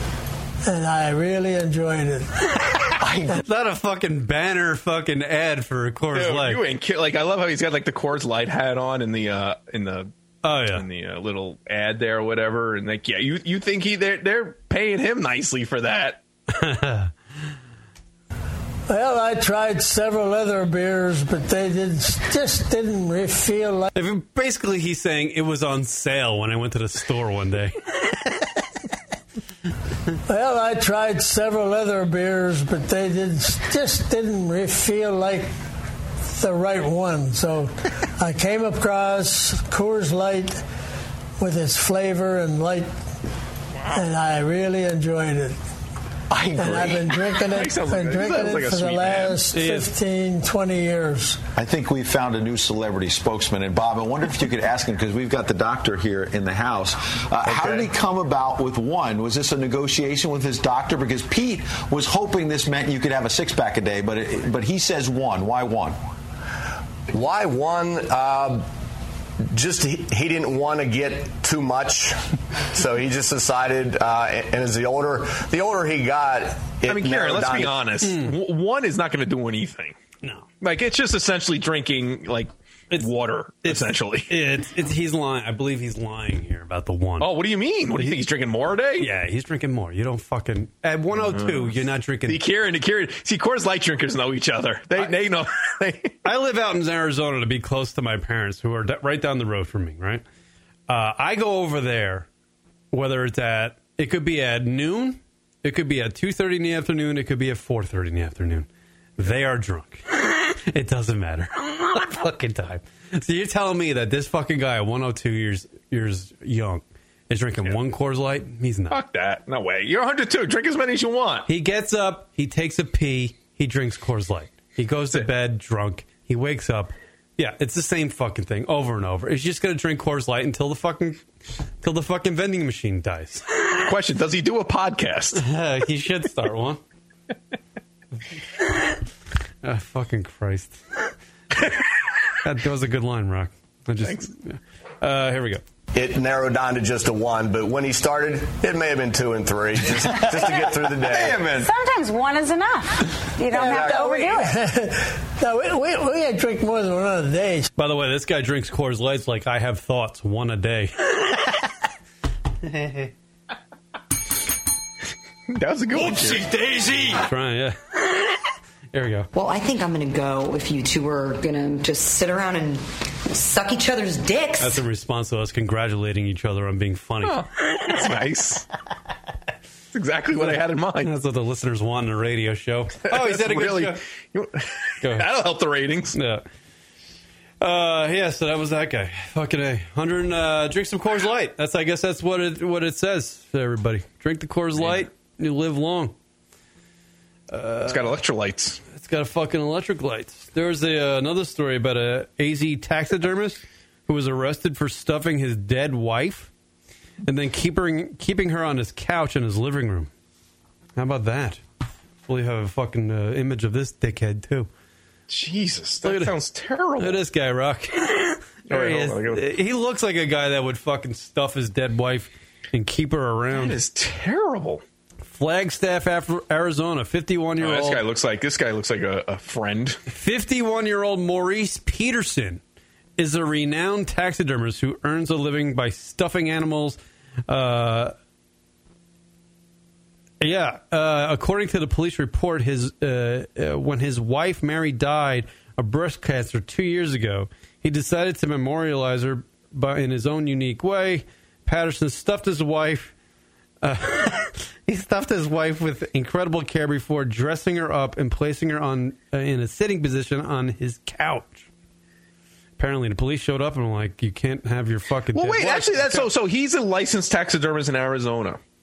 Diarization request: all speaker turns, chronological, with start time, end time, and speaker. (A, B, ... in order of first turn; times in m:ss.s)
0:00.6-0:02.3 A
0:03.4-0:06.6 B
0:06.1-0:16.2 C
0:10.4-0:10.8 B
0:16.5-0:17.1 B
0:18.9-0:23.9 A
0:23.9-0:27.8 B
0:30.3-0:35.5 A
0:36.3-0:40.6 A
0:41.4-0:42.9 A
0:43.7-0:44.0 C
0:43.9-0:45.6 A
0:46.3-0:47.0 D
0:46.6-0:51.4 A
0:46.6-0:49.4 C
0:49.5-0:49.9 B
0:51.6-1:06.0 E
0:57.5-0:57.8 C
1:07.1-1:08.7 D
1:09.5-1:12.1 D
1:12.7-1:17.8 D
1:16.8-1:20.0 C
1:18.0-1:18.3 B
1:20.2-1:20.5 B
1:20.6-1:24.3 C
1:23.6-1:27.3 B
1:27.2-1:29.1 C
1:29.0-1:32.4 B
1:31.1-1:36.2 C
1:36.2-1:40.2 B
1:40.9-1:42.3 B
1:42.9-1:59.0 B
1:58.9-2:01.5 C
2:01.5-2:11.2 B
2:11.8-2:13.4 B
2:13.8-2:15.4 C
2:15.3-2:16.8 B
2:19.6-2:20.8 B
2:22.4-2:25.6 B
2:24.0-2:24.3 C
2:25.9-2:31.7 D
2:31.4-2:34.6 F
2:33.5-2:37.7 A
2:37.8-2:41.2 B
2:42.6-2:43.1 B
2:45.5-2:46.5 C
2:46.8-2:47.8 B
2:48.9-2:49.3 B
2:49.3-2:54.8 G
2:54.6-2:57.4 B
2:57.2-2:58.6 C
2:59.9-3:01.1 C
3:01.0-3:04.0 B
3:03.0-3:06.2 C
3:05.0-3:05.3 B
3:06.1-3:06.4 B
3:07.6-3:16.1 B
3:17.5-3:18.2 B
3:17.8-3:18.8 C
3:18.9-3:26.5 B
3:27.2-3:30.1 B
3:31.0-3:31.6 B
3:32.2-3:34.7 B
3:35.3-3:37.2 C
3:36.0-3:36.3 B
3:37.0-3:43.8 B
3:38.7-3:39.5 C
3:43.5-3:44.8 C
3:45.3-3:48.0 B
3:47.6-3:50.0 C
3:50.1-3:52.6 B
3:53.2-3:58.1 B
4:00.4-4:13.1 B
4:13.8-4:21.6 B
4:22.8-4:26.3 B
4:25.3-4:28.6 C